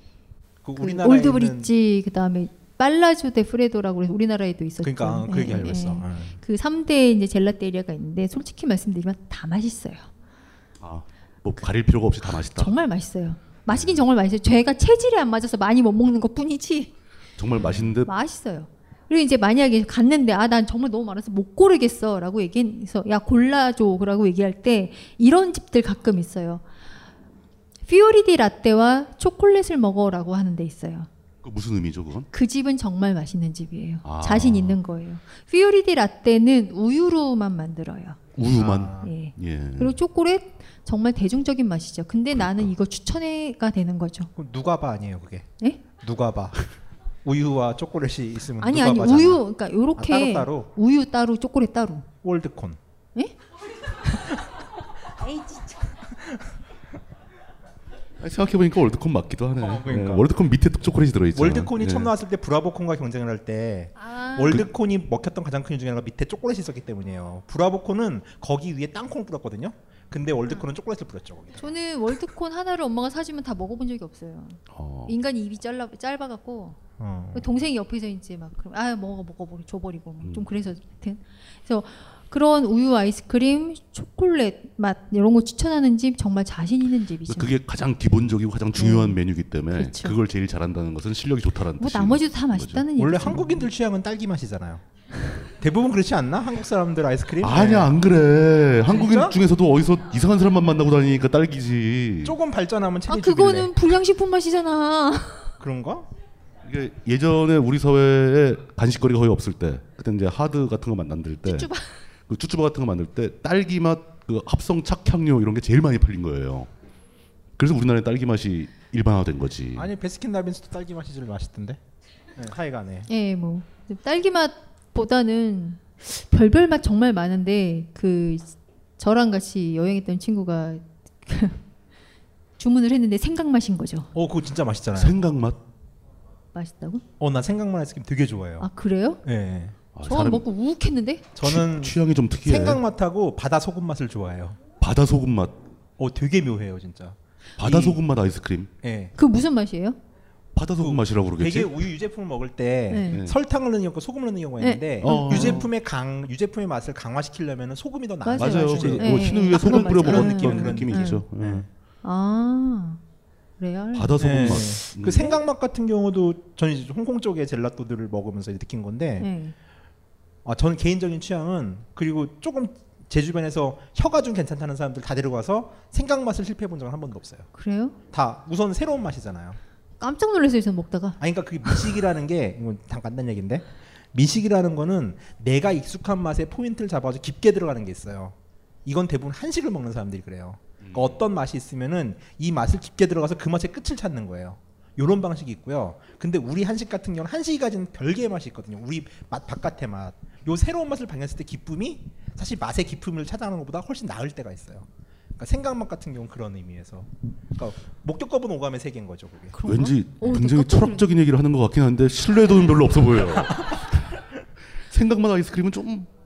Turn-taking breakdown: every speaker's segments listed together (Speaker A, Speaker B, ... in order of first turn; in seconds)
Speaker A: 0.6-1.7, 4.8-6.4, 38.4-39.1, 44.4-45.5, 46.0-46.6, 47.2-49.4, 50.0-50.7, 52.2-52.8, 59.6-60.3, 61.3-71.7, 77.0-77.5, 93.0-94.8, 95.6-97.9, 98.9-99.3, 102.2-103.7, 105.6-106.1, 119.7-121.8, 122.3-123.1, 134.1-135.2, 137.2-138.7, 139.2-139.8, 141.3-144.6, 146.0-148.0, 148.8-149.1, 150.8-161.7, 164.2-169.3, 170.4-177.5, 178.1-179.6, 181.2-209.6
Speaker B: 0.8-10.1, 12.2-16.9, 18.0-26.6, 27.9-31.1, 32.3-38.2, 39.0-44.3, 48.6-52.1, 55.2-55.9, 64.0-64.6, 71.5-76.8, 77.3-87.5, 88.8-89.2, 89.7-90.2, 91.8-93.7, 103.1-105.5, 111.4-111.9, 123.1-131.6, 132.6-134.1, 136.5-137.0, 138.6-139.2, 140.0-141.2, 149.2-150.0, 152.9-153.2, 154.6-155.7, 158.2-161.2, 162.0-163.0, 163.6-164.8, 169.2-169.5, 177.5-178.0, 180.0-181.7, 209.5-211.0
Speaker C: 10.8-12.7, 13.7-14.0, 17.4-18.1, 31.4-32.3, 34.0-34.8, 38.3-40.0, 42.4-42.7, 58.2-62.1, 74.7-75.1, 80.2-80.5, 87.3-92.8, 97.4-102.4, 106.6-111.7, 112.3-116.7, 117.6-119.9, 134.9-135.6, 139.9-140.4, 141.4-142.8, 144.8-145.6, 147.6-148.7, 150.5-151.9, 153.1-153.4, 155.0-155.7, 158.3-161.7, 163.9-165.4, 190.8-191.2, 209.6-214.1, 214.9-216.1